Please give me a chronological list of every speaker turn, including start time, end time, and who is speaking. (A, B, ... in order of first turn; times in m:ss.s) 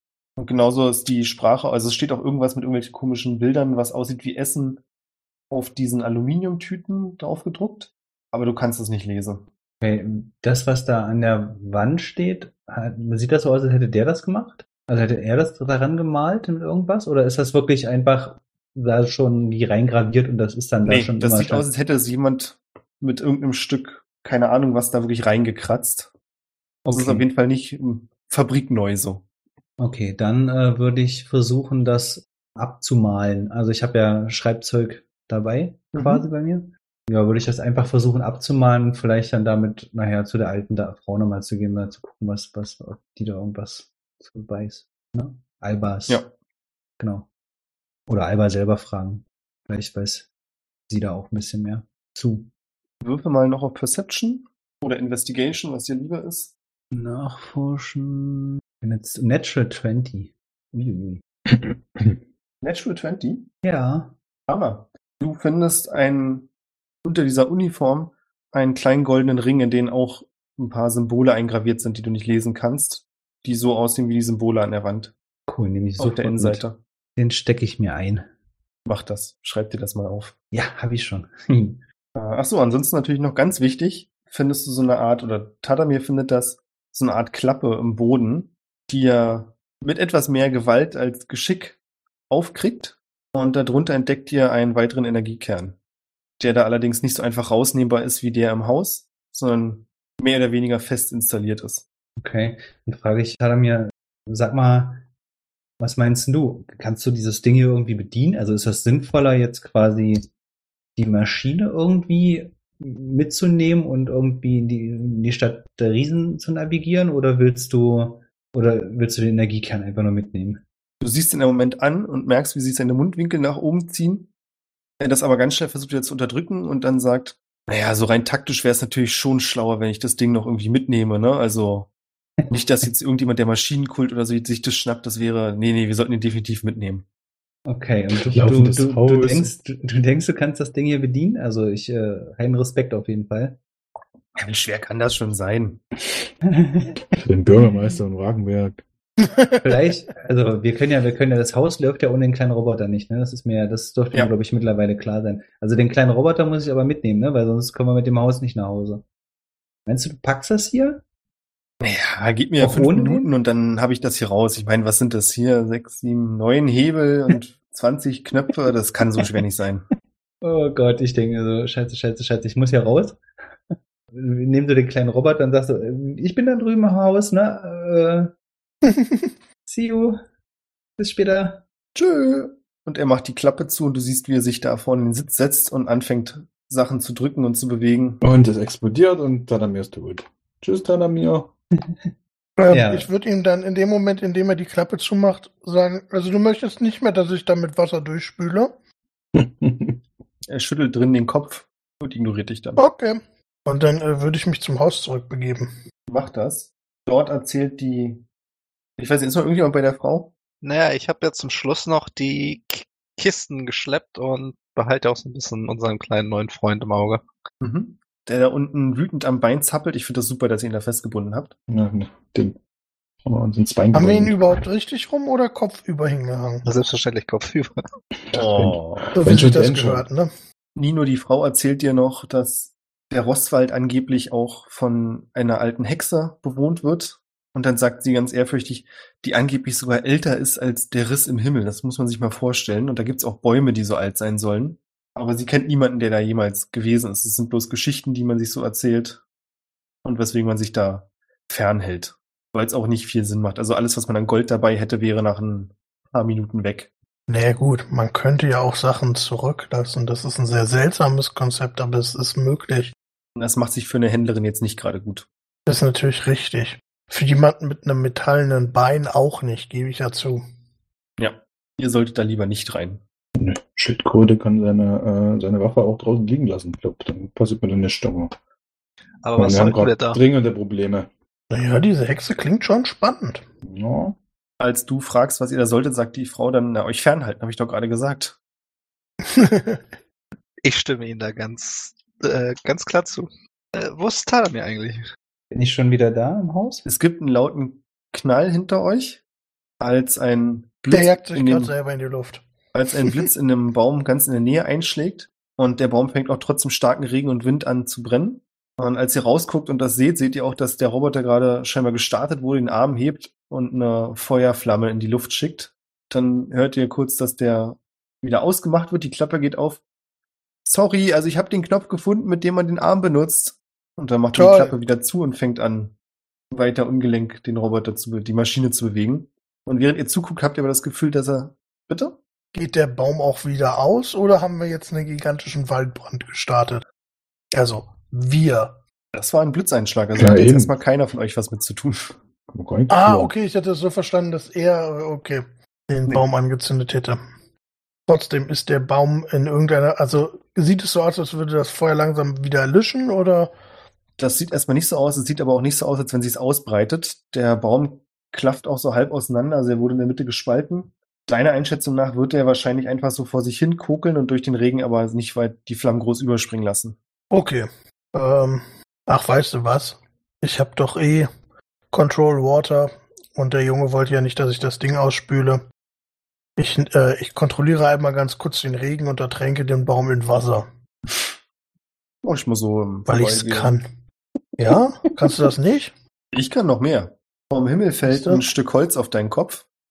0:00.4-0:04.8 A
0:05.5-0:09.5 A
0:09.8-0:21.7 B
0:20.9-0:26.1 A
0:26.8-0:27.3 B
0:26.9-0:29.2 A
0:29.8-0:46.2 B
0:35.9-0:36.2 A
0:47.0-0:47.3 B
0:48.1-0:50.3 B
0:50.9-0:52.5 B
0:53.0-0:56.5 A
0:56.9-1:01.2 B
1:01.5-1:02.2 C
1:02.6-1:03.5 A
1:03.6-1:04.1 B
1:04.5-1:06.5 A
1:07.0-1:15.1 A
1:15.5-1:16.6 B
1:16.0-1:16.8 A
1:17.2-1:18.3 B
1:18.9-1:20.3 A
1:20.5-1:21.8 B
1:22.2-1:31.8 A
1:32.3-1:35.8 A
1:36.4-1:41.8 A
1:42.2-1:45.1 B
1:45.8-1:50.3 B
1:51.0-2:00.6 B
2:01.0-2:04.3 A
2:05.0-2:11.9 A
2:12.5-2:17.1 A
2:17.6-2:23.6 B
2:18.2-2:19.5 C
2:24.4-2:25.8 A
2:26.4-2:27.0 B
2:27.2-2:28.8 C
2:29.6-2:39.0 B
2:39.9-2:41.0 B
2:41.8-2:49.8 A
2:42.6-2:43.3 B
2:50.4-2:58.3 B
2:58.9-2:59.3 D
2:59.7-3:00.2 B
3:01.0-3:01.6 B
3:01.9-3:08.2 A
3:08.2-3:11.5 C
3:11.7-3:12.1 B
3:12.6-3:18.7 D
3:12.7-3:13.1 B
3:19.3-3:20.0 C
3:20.5-3:22.8 A
3:22.8-3:25.7 D
3:26.1-3:28.2 A
3:29.0-3:30.3 A
3:30.6-3:37.2 E
3:37.6-3:41.5 A
3:41.7-3:42.6 C
3:43.2-3:44.6 C
3:43.9-3:46.6 D
3:46.6-3:47.8 E
3:48.3-3:50.0 C
3:48.3-3:48.8 A
3:49.1-3:50.3 D
3:50.7-4:09.2 A
4:10.0-4:16.9 A
4:17.3-4:22.9 D
4:23.4-4:25.3 A
4:25.7-4:30.4 D
4:31.2-4:33.0 A
4:33.4-4:38.4 C
4:39.2-4:40.2 E
4:39.4-4:41.1 C
4:41.5-4:43.4 D
4:43.6-4:44.2 C
4:44.6-4:48.4 A
4:49.3-4:49.8 D
4:50.6-4:55.0 E
4:55.5-4:56.8 B
4:56.8-4:59.2 A
4:59.8-5:01.7 A
5:00.9-5:03.3 D
5:02.7-5:19.8 A
5:20.6-5:25.9 A
5:24.3-5:24.7 D
5:26.5-5:32.2 A
5:32.5-5:36.8 D
5:37.5-5:38.8 D
5:39.1-5:42.1 A
5:40.2-5:40.8 C
5:42.5-5:43.3 C
5:42.9-5:47.2 D
5:48.1-5:53.5 D
5:54.2-6:07.0 A
6:07.3-6:11.3 D
6:11.9-6:15.6 D
6:16.6-6:20.7 D
6:22.2-6:23.7 A
6:23.1-6:23.8 D
6:24.6-6:25.9 D
6:26.3-6:29.6 A
6:28.0-6:28.4 D